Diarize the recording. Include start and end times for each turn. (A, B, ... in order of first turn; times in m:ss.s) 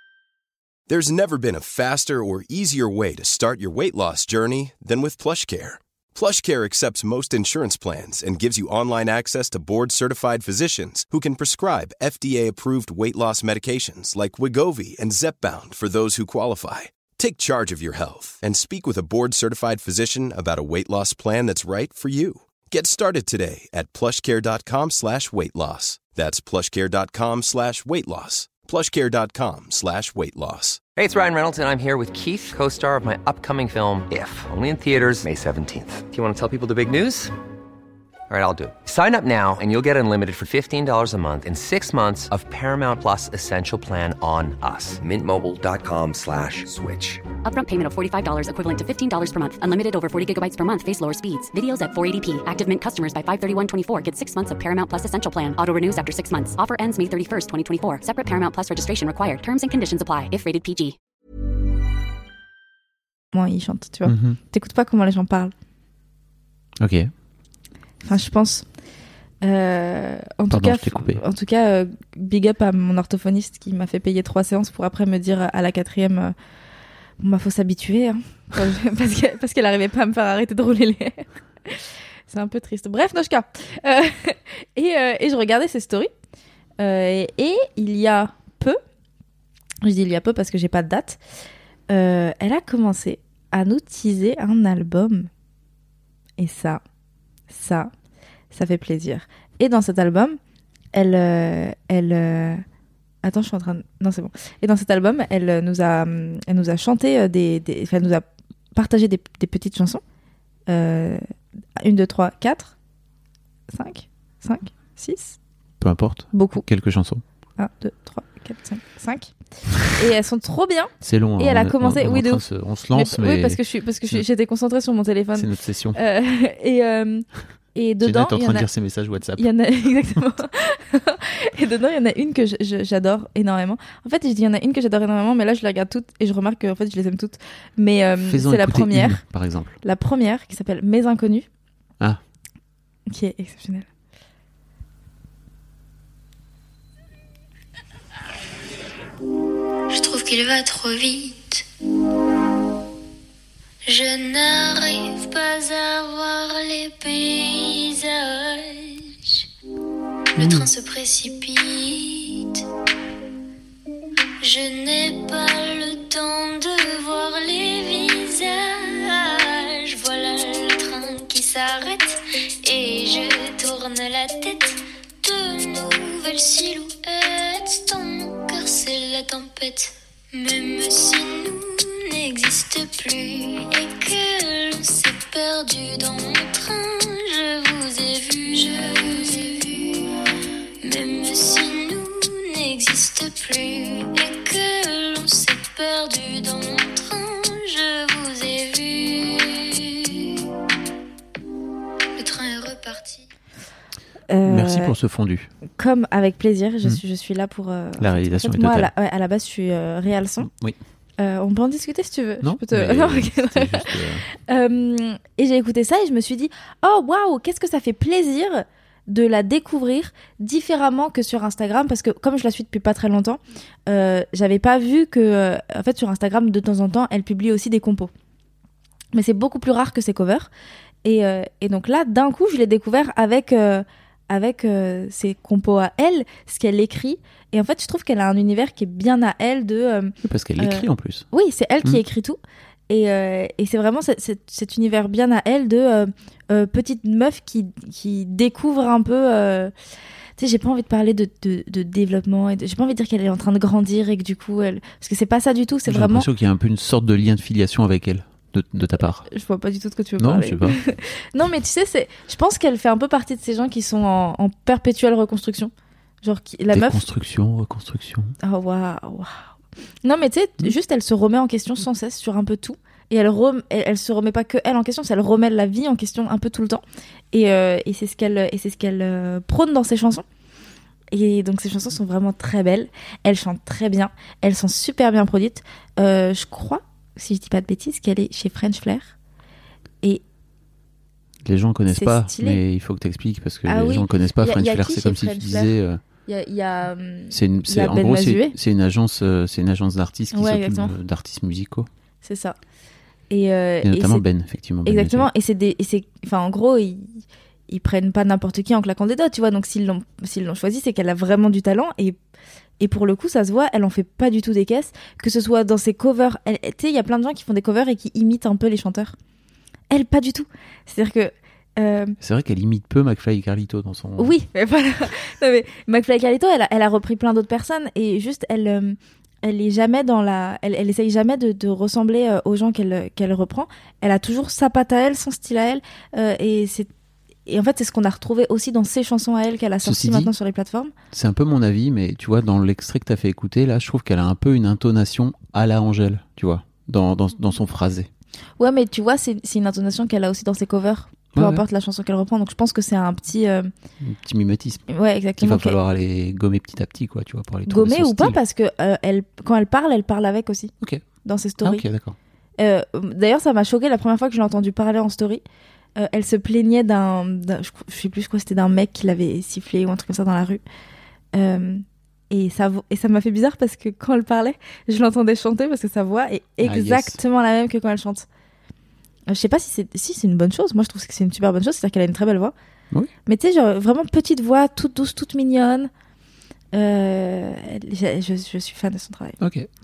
0:00.9-0:30.8 A
0:31.0-0:37.3 B
0:38.3-0:47.2 B
0:47.4-1:01.0 C
1:03.3-1:05.5 D
1:04.0-1:04.4 E
1:06.8-1:07.1 E
1:08.0-1:08.7 D
1:09.4-1:16.3 D
1:10.5-1:11.2 E
1:17.2-1:26.1 D
1:26.8-1:28.8 D
1:29.8-1:31.2 D
1:31.9-1:35.3 D
1:36.4-1:36.8 D
1:37.5-1:37.9 D
1:38.5-1:40.4 D
1:40.9-1:42.6 D
1:43.2-1:50.0 D
1:50.7-1:51.2 D
1:51.8-1:52.7 D
1:53.7-1:55.4 D
1:55.8-1:57.2 E
1:56.3-1:56.6 D
1:57.6-1:59.3 D
1:59.9-2:08.7 D
2:01.0-2:04.2 E
2:05.4-2:06.0 E
2:08.0-2:09.5 E
2:09.3-2:19.2 D
2:18.2-2:19.8 E
2:19.8-2:21.5 D
2:23.1-2:23.9 D
2:29.9-2:31.6 F
2:33.9-2:39.4 F
2:40.4-2:42.6 F
2:40.4-2:40.7 E
2:44.4-3:10.1 F
3:10.8-3:20.4 F
3:22.2-3:23.2 F
3:24.3-3:25.0 D
3:24.5-3:25.5 E
3:25.8-3:30.5 D
3:28.0-3:28.9 E
3:30.4-3:30.8 E
3:31.2-3:48.1 D
3:32.4-3:34.2 E
3:49.1-3:50.5 D
3:51.0-4:09.7 D
4:00.2-4:01.3 E
4:10.4-4:16.3 D
4:15.9-4:19.3 E
4:19.3-4:27.0 D
4:20.2-4:20.8 E
4:26.7-4:28.4 E
4:28.4-4:29.3 D
4:30.0-4:40.2 D
4:41.1-4:49.1 D
4:51.4-4:56.0 E
4:51.9-4:52.6 D
4:53.7-4:58.6 D
4:57.3-5:01.9 E
5:00.3-5:01.0 D
5:02.2-5:02.6 D
5:03.3-5:04.3 D
5:03.8-5:05.3 E
5:04.8-5:12.2 D
5:12.8-5:19.2 D
5:19.9-5:22.2 D
5:22.2-5:24.4 E
5:24.2-5:36.9 D
5:37.5-5:40.9 D
5:39.8-5:40.3 E
5:41.1-5:48.1 E
5:48.6-5:53.7 D
5:51.4-5:51.6 E
5:54.0-5:54.8 E
5:54.9-5:55.8 D
5:55.4-5:58.4 E
5:57.7-6:00.7 D
6:01.2-6:01.8 D
6:01.6-6:02.2 E
6:02.6-6:05.4 D
6:06.0-6:10.6 D
6:11.3-6:18.3 D
6:16.6-6:17.2 E
6:19.3-6:22.5 D
6:23.3-6:25.9 D
6:26.7-6:29.4 D
6:29.4-6:29.7 E